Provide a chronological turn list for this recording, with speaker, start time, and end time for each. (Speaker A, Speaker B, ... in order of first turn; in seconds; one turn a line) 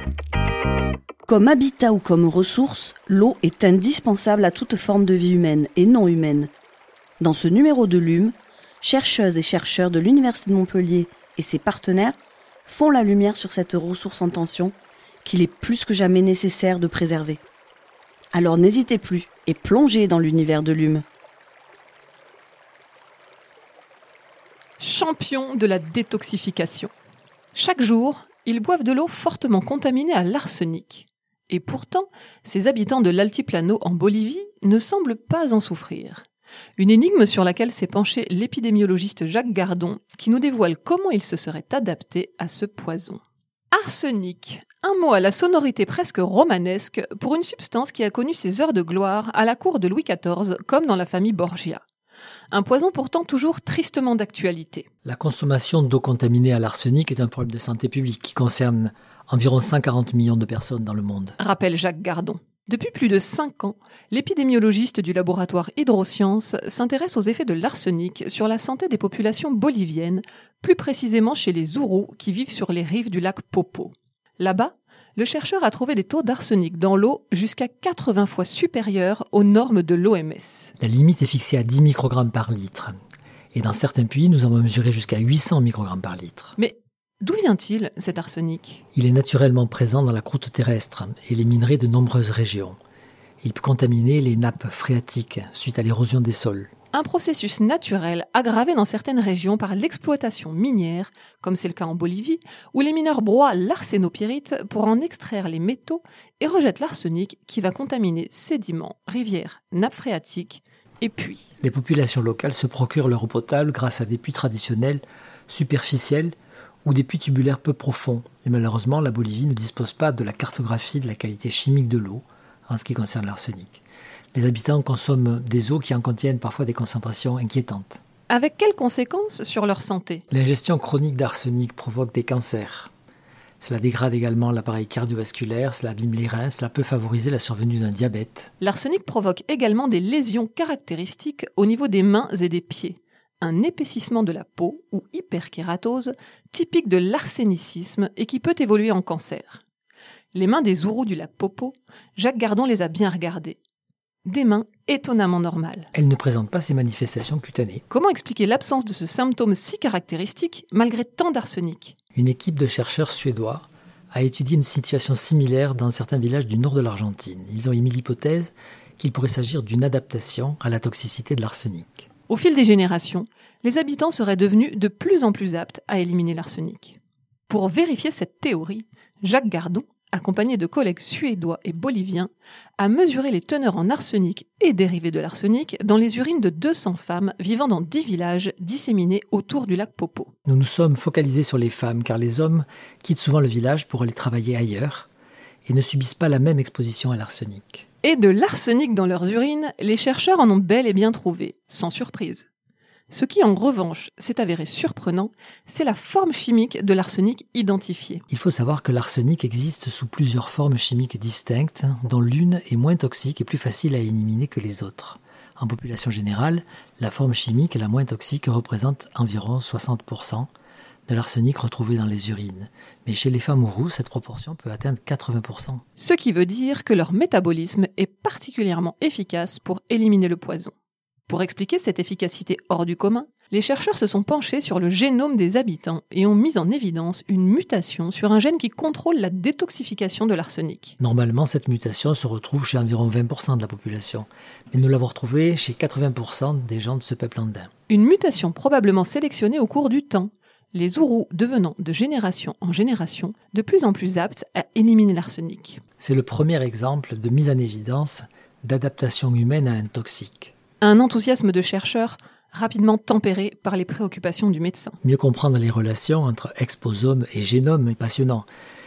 Speaker A: 1.3-6.5
Speaker A: 7.2-17.4
Speaker A: 18.3-21.0
Speaker B: 24.8-26.9
Speaker B: 27.5-36.3
Speaker B: 36.8-51.8
Speaker B: 52.5-54.9
Speaker C: 55.0-61.4
Speaker B: 61.4-80.7
Speaker C: 80.8-83.0
Speaker C: 83.5-86.6
Speaker B: 86.6-88.8
Speaker C: 88.9-92.8
Speaker C: 93.4-96.7
Speaker B: 96.9-111.5
Speaker C: 111.6-116.3
Speaker C: 116.8-123.8
Speaker C: 124.3-128.0
Speaker B: 128.3-130.2
Speaker C: 130.3-132.9
Speaker C: 133.6-138.5
Speaker B: 138.6-149.6
Speaker B: 150.3-153.6
Speaker B: 154.2-155.9
Speaker C: 155.9-157.8
Speaker B: 157.9-161.9
Speaker C: 162.2-172.1
Speaker B: 172.3-190.3
Speaker C: 190.5-195.1
Speaker C: 195.7-197.9
Speaker B: 198.0-202.5
Speaker B: 203.1-208.2
Speaker C: 208.3-220.5
Speaker C: 221.1-225.8
Speaker B: 226.0-230.7
Speaker B: 231.3-241.0
Speaker C: 241.0-247.7
Speaker B: 247.9-255.8
Speaker C: 256.0-260.5
Speaker B: 260.8-265.0
Speaker C: 265.0-268.5